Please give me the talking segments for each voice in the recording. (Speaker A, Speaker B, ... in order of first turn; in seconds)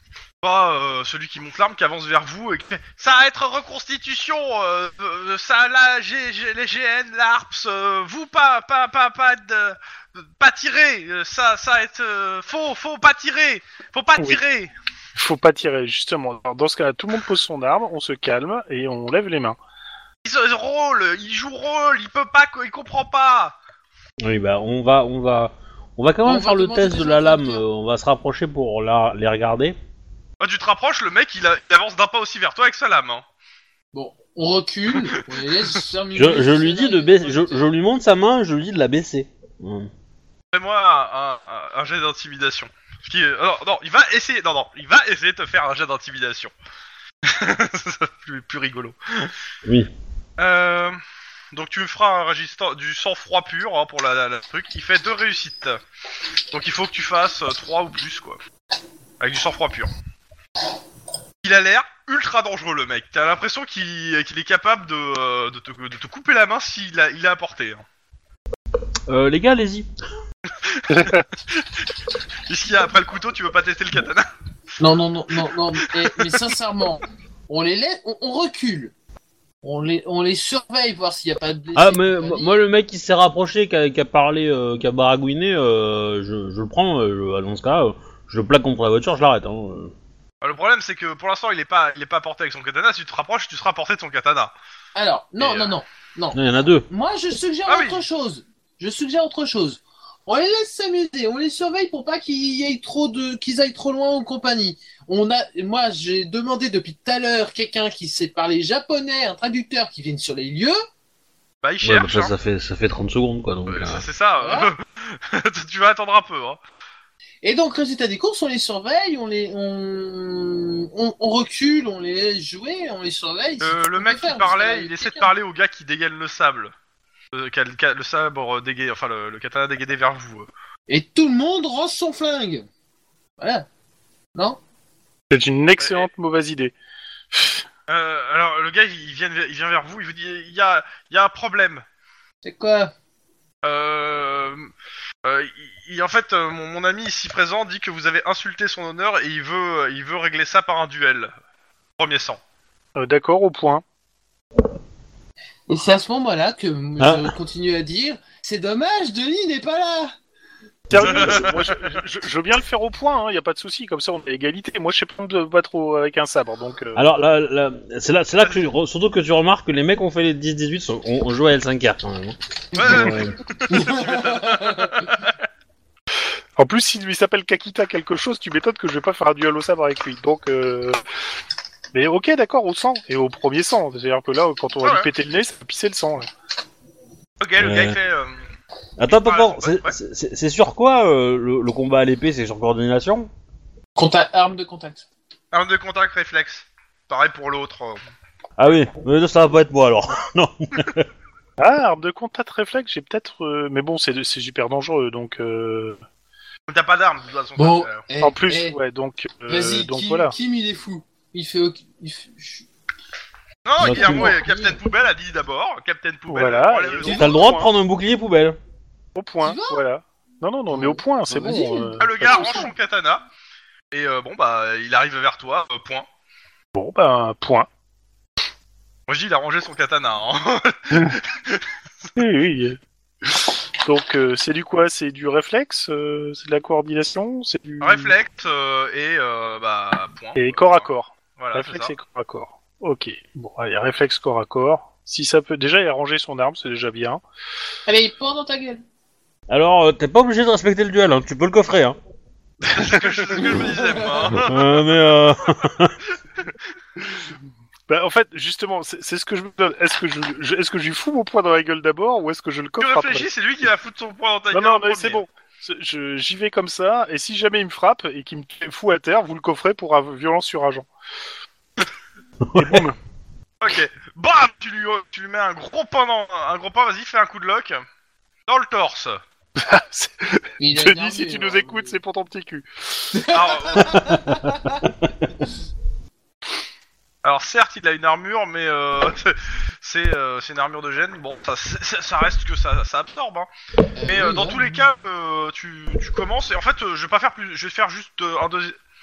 Speaker A: 0.4-14.7, 20.2-23.6, 30.4-33.2, 34.9-35.4, 40.5-46.5, 47.2-49.3, 50.4-51.0, 51.5-55.8, 56.5-58.4, 59.2-59.9, 61.4-67.8, 70.6-71.9, 72.5-74.3, 75.3-76.3, 90.4-94.5, 95.4-95.8, 97.7-98.0, 111.6-112.3, 113.7-116.6, 123.6-126.7, 127.3-130.5, 135.8-136.1, 137.9-141.8, 143.6-144.7, 145.2-151.3, 152.0-152.4, 161.0-161.8, 168.4-168.7, 172.7-175.4, 184.8-185.1, 187.4-188.4, 189.2-189.9, 195.5-198.0, 206.7-208.0, 213.6-217.3, 222.0-223.2, 223.9-226.1, 229.1-231.7, 237.8-241.9, 252.7-255.1, 262.8-265.2, 273.6-277.8, 278.5-279.2, 283.3-284.0, 287.2-293.5, 294.1-298.8
Speaker B: 15.1-19.6, 70.9-71.2, 135.3-136.7, 137.3-137.6, 152.9-153.8, 160.9-167.1, 176.6-181.0, 181.9-186.3, 201.6-206.0, 208.2-210.3, 216.3-217.7, 219.2-222.5, 226.7-227.7, 232.2-238.1, 240.3-247.2, 252.7-253.2, 257.9-263.3, 264.5-270.9, 272.6-272.9, 279.6-283.1
Speaker C: 24.2-29.8, 36.1-39.9, 49.6-49.9, 69.1-69.9, 81.7-89.9, 96.3-96.9, 111.8-114.0, 157.0-157.3, 160.9-161.4, 166.9-173.4, 187.6-187.9, 189.0-193.3, 198.6-201.1, 213.8-214.4, 217.1-218.6, 249.5-252.0, 254.3-255.9, 272.4-272.8, 283.8-285.1
Speaker D: 26.2-27.6, 33.9-37.6, 74.8-78.9, 79.6-82.5, 94.9-110.8, 114.4-114.7, 117.4-125.3, 130.9-132.7, 133.4-133.7, 142.4-142.9, 155.7-160.1, 173.7-175.1, 193.9-195.1, 207.6-208.8, 209.5-212.7, 213.8-214.8, 217.0-217.4, 219.4-219.8, 220.7-222.7, 247.9-248.8, 253.3-254.3, 280.6-282.0, 283.1-284.8, 293.9-294.8